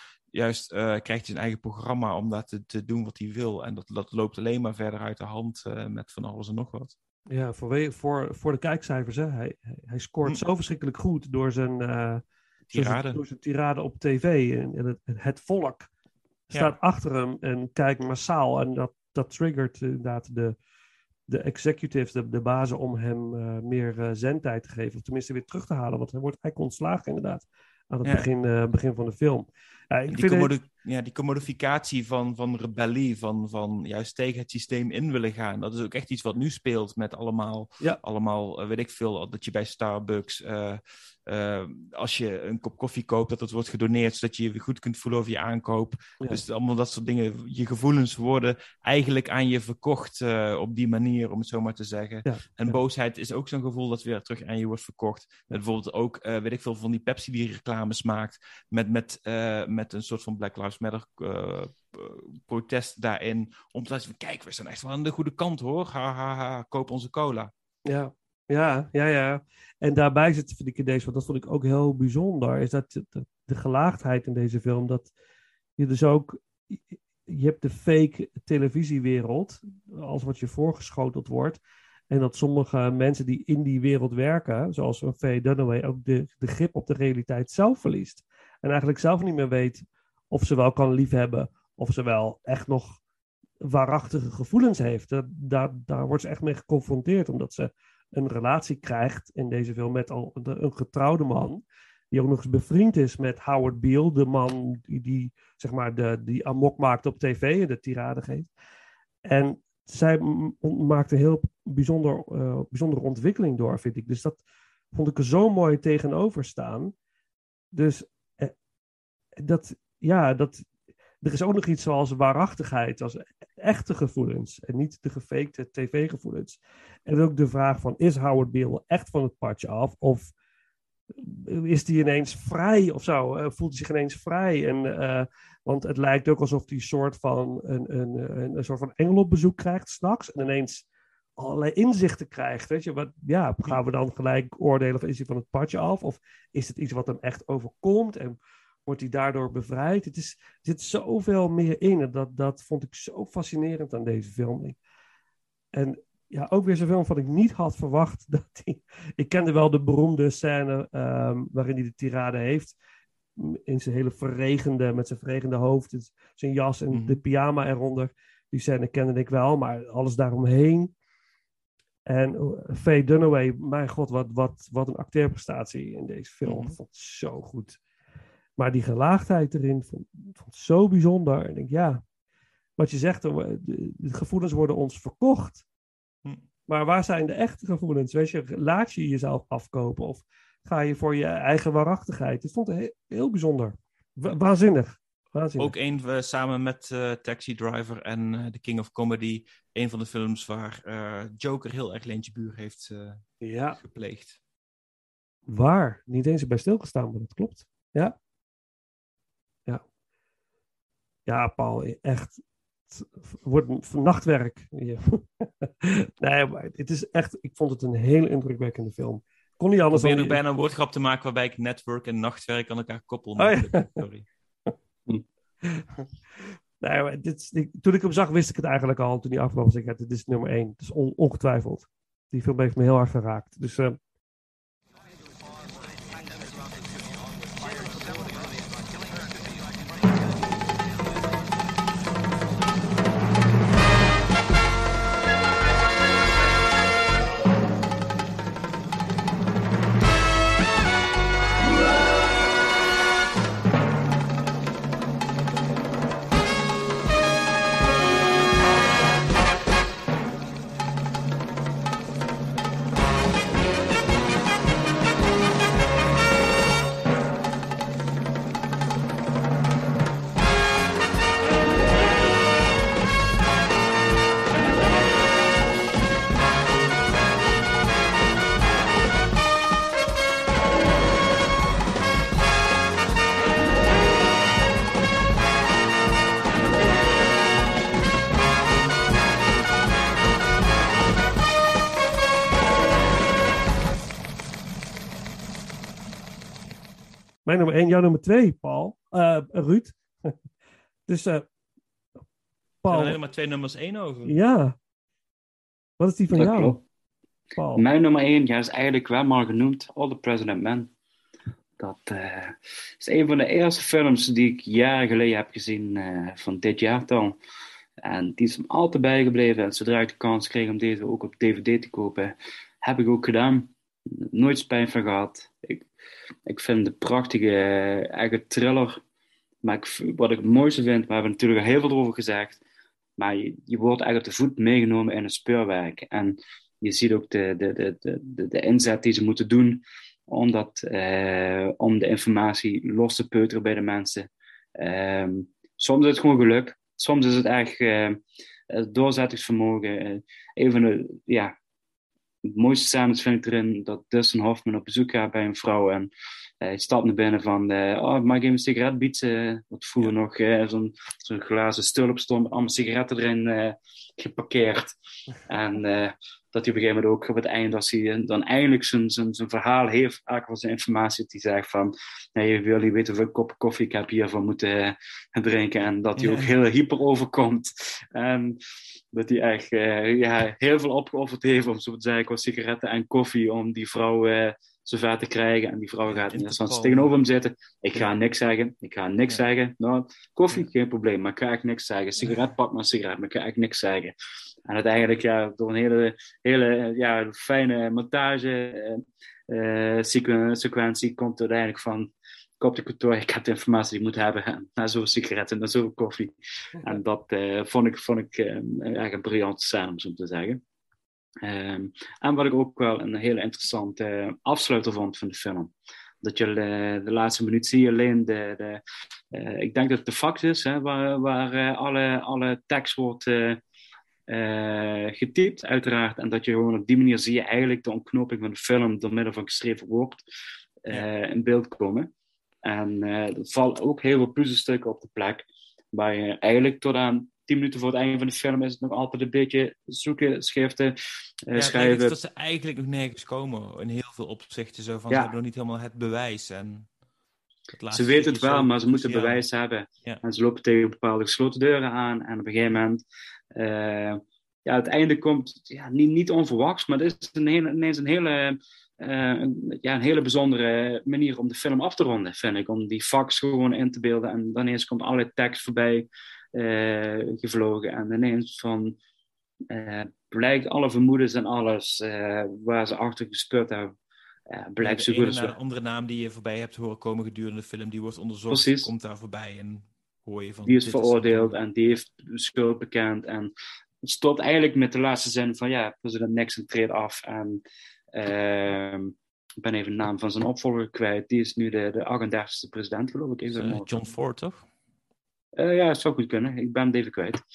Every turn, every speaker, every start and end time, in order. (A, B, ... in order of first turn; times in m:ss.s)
0:00.3-0:06.9 A
0:07.3-0:12.2 B
0:12.7-0:13.2 A
0:12.7-0:15.9 B
0:16.5-0:16.8 A
0:16.5-0:20.6 B
0:21.3-0:30.5 B
0:28.0-0:28.3 A
0:30.1-1:07.5 A
0:52.3-0:52.8 B
1:07.9-1:15.1 B
1:15.8-1:21.6 B
1:22.1-1:33.0 B
1:33.7-1:48.5 B
1:49.3-1:54.4 B
1:54.9-1:56.9 B
1:57.7-1:58.5 B
1:59.4-2:00.6 B
2:01.2-2:10.3 B
2:11.1-2:20.8 B
2:21.4-2:34.8 B
2:35.7-2:42.8 B
2:43.4-2:50.9 B
2:46.9-2:47.2 A
2:52.1-2:57.8 B
2:56.4-2:56.8 A
2:58.6-3:02.0 B
3:02.8-3:05.6 B
3:06.7-3:15.7 B
3:15.6-3:24.4 A
3:23.4-3:23.8 B
3:25.5-3:28.2 B
3:31.3-3:32.4 B
3:32.9-3:40.4 B
3:39.9-3:44.3 A
3:43.4-3:44.0 B
3:45.6-3:46.1 B
3:46.8-3:54.0 B
4:57.4-5:00.4 B
5:01.1-5:01.5 B
5:02.8-5:03.2 B
5:02.9-5:04.4 A
5:04.2-5:04.8 B
5:06.0-5:06.8 B
5:06.3-5:06.8 C
5:07.6-5:07.8 B
5:07.8-5:10.9 C
5:11.8-5:17.4 C
5:18.0-5:25.9 C
5:26.5-5:29.0 C
5:29.6-5:32.6 C
5:33.2-5:51.5 C
5:52.4-5:56.1 C
5:56.6-6:05.0 C
6:05.5-6:18.6 C
6:16.2-6:16.6 A
6:19.1-6:34.2 C
6:26.1-6:27.2 A
6:34.7-6:50.6 C
6:51.4-6:58.8 C
6:59.3-7:03.6 C
7:04.3-7:10.3 C
7:10.8-7:12.1 C
7:12.6-7:21.0 C
7:21.5-7:22.2 C
7:21.5-7:26.9 A
7:27.7-7:29.4 A
7:27.9-7:33.0 C
7:33.6-7:49.0 C
7:49.7-7:53.9 C
7:54.5-7:55.5 C
7:54.8-8:01.6 A
7:58.5-7:58.9 C
8:00.7-8:07.6 C
8:08.2-8:13.9 C
8:13.5-8:14.7 A
8:15.6-8:17.4 C